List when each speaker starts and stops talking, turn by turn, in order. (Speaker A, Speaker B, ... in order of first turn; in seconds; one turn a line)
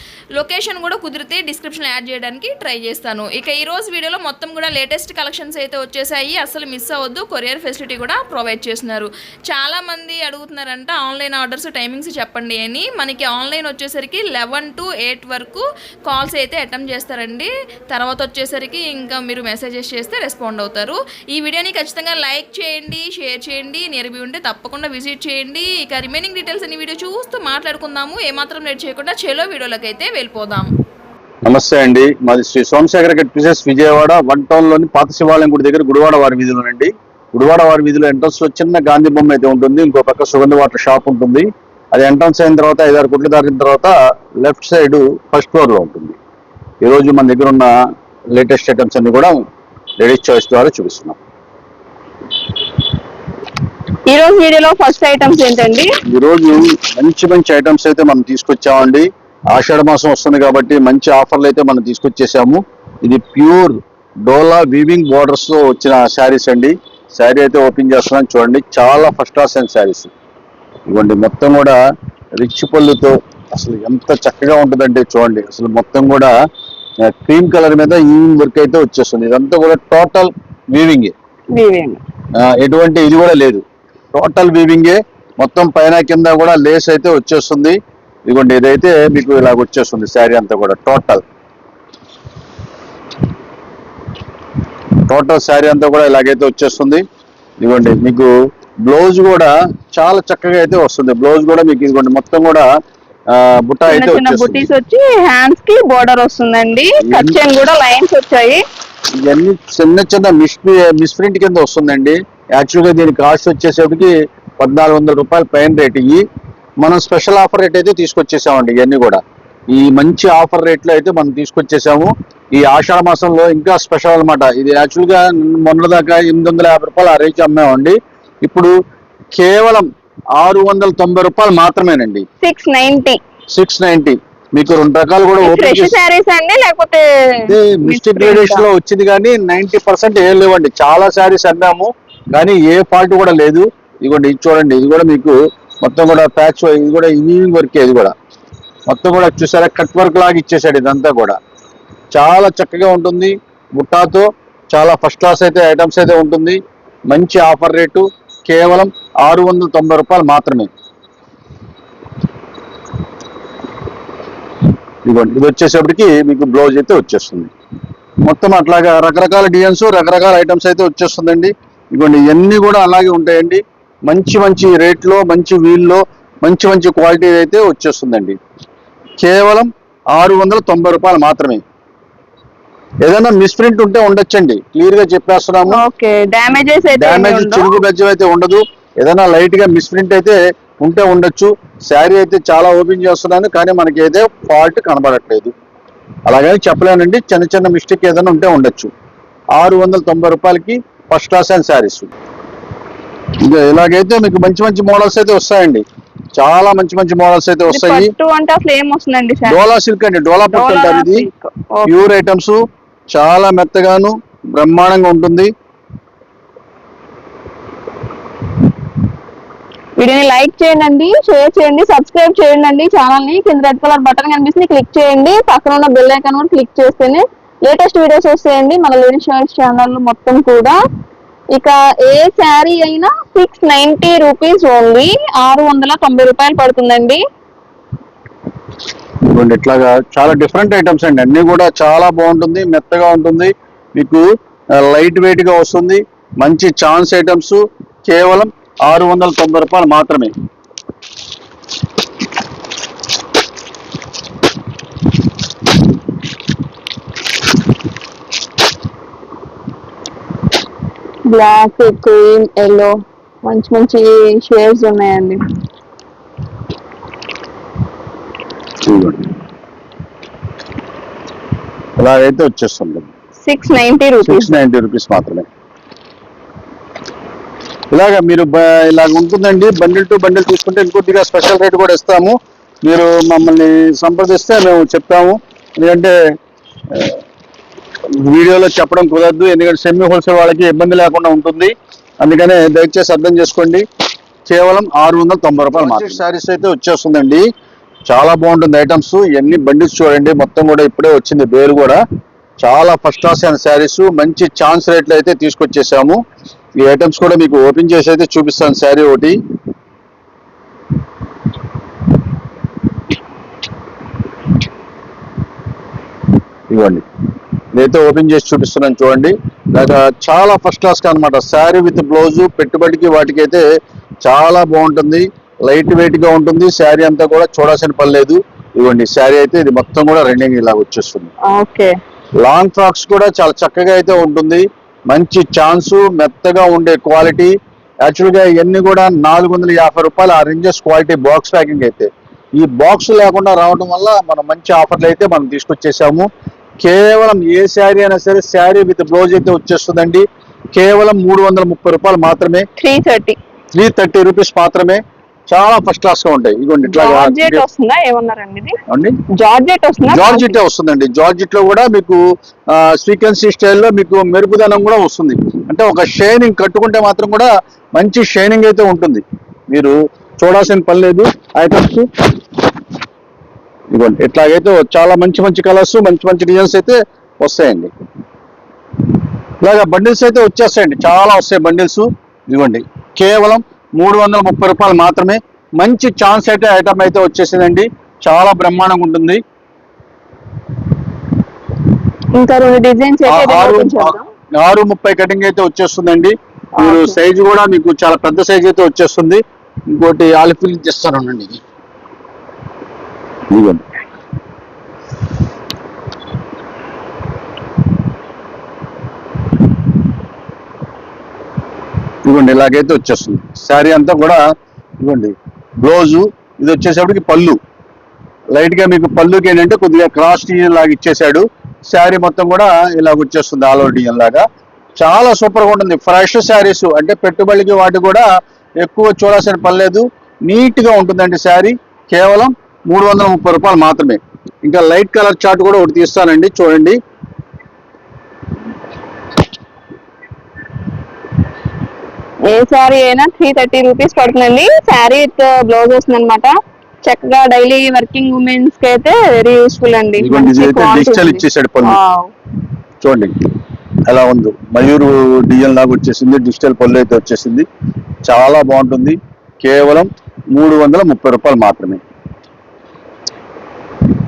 Speaker A: 0.3-30.7
Speaker B: 31.4-46.2
Speaker B: 46.8-47.7
Speaker B: 48.3-49.4
Speaker B: 50.0-51.2
Speaker C: 54.1-55.9
Speaker B: 56.1-70.1
Speaker B: 70.9-71.8
Speaker B: 72.3-76.3
Speaker B: 77.0-81.1
Speaker C: 81.5-82.0
Speaker B: 82.4-83.6
Speaker B: 84.1-87.8
Speaker B: 88.3-91.2
Speaker B: 95.1-97.0
Speaker B: 97.6-98.3
Speaker B: 98.8-102.7
Speaker B: 103.3-104.7
Speaker C: 103.9-108.6
Speaker B: 107.0-107.4
Speaker B: 109.2-116.2
Speaker B: 116.8-119.2
Speaker B: 119.7-128.7
Speaker B: 129.3-129.8
Speaker B: 130.4-132.2
Speaker C: 132.4-133.2
Speaker B: 133.5-135.9
Speaker C: 135.4-138.6
Speaker B: 137.5-148.1
Speaker B: 148.9-151.4
Speaker B: 152.1-156.6
Speaker B: 157.1-160.7
Speaker B: 165.0-167.5
Speaker B: 168.2-178.3
Speaker B: 179.2-181.6
Speaker B: 183.0-185.8
Speaker C: 185.7-187.8
Speaker B: 186.9-195.5
Speaker B: 196.3-198.9
Speaker B: 199.6-202.1
Speaker B: 203.4-205.8
Speaker B: 206.3-208.1
Speaker C: 207.7-209.7
Speaker B: 209.4-211.3
Speaker C: 210.5-211.9
Speaker B: 211.9-212.6
Speaker B: 213.1-215.5
Speaker C: 220.0-230.8
Speaker C: 231.5-237.2
Speaker B: 239.3-244.2
Speaker B: 244.8-250.3
Speaker C: 261.3-265.4
Speaker B: 268.8-269.2
Speaker B: 272.0-273.1
Speaker C: 273.4-274.6
Speaker B: 274.2-275.4
Speaker B: 277.9-286.1
Speaker B: 286.9-287.2
Speaker B: 288.1-293.8
Speaker B: 294.5-297.4
Speaker B: 298.1-302.0
Speaker B: 302.6-306.2
Speaker B: 306.8-309.4
Speaker B: 316.7-317.0
Speaker B: 317.7-323.6
Speaker B: 324.2-331.3
Speaker C: 331.5-331.9
Speaker B: 332.4-337.5
Speaker B: 338.0-346.3
Speaker B: 346.8-352.6
Speaker C: 352.8-353.4
Speaker B: 353.7-357.6
Speaker C: 356.8-358.8
Speaker B: 358.9-359.1
Speaker C: 359.4-360.6
Speaker B: 360.1-362.2
Speaker B: 362.7-372.1
Speaker B: 373.9-377.9
Speaker B: 379.6-389.4
Speaker C: 392.4-394.2
Speaker B: 393.3-399.4
Speaker C: 396.8-397.2
Speaker B: 399.9-401.6
Speaker B: 403.5-403.8
Speaker B: 412.2-414.4
Speaker B: 415.0-417.6
Speaker B: 418.5-424.4
Speaker B: 425.0-428.3
Speaker B: 428.8-436.9
Speaker C: 442.5-446.5
Speaker C: 447.0-452.3
Speaker B: 450.2-452.0
Speaker B: 453.0-453.4
Speaker B: 454.1-457.6
Speaker B: 458.2-462.0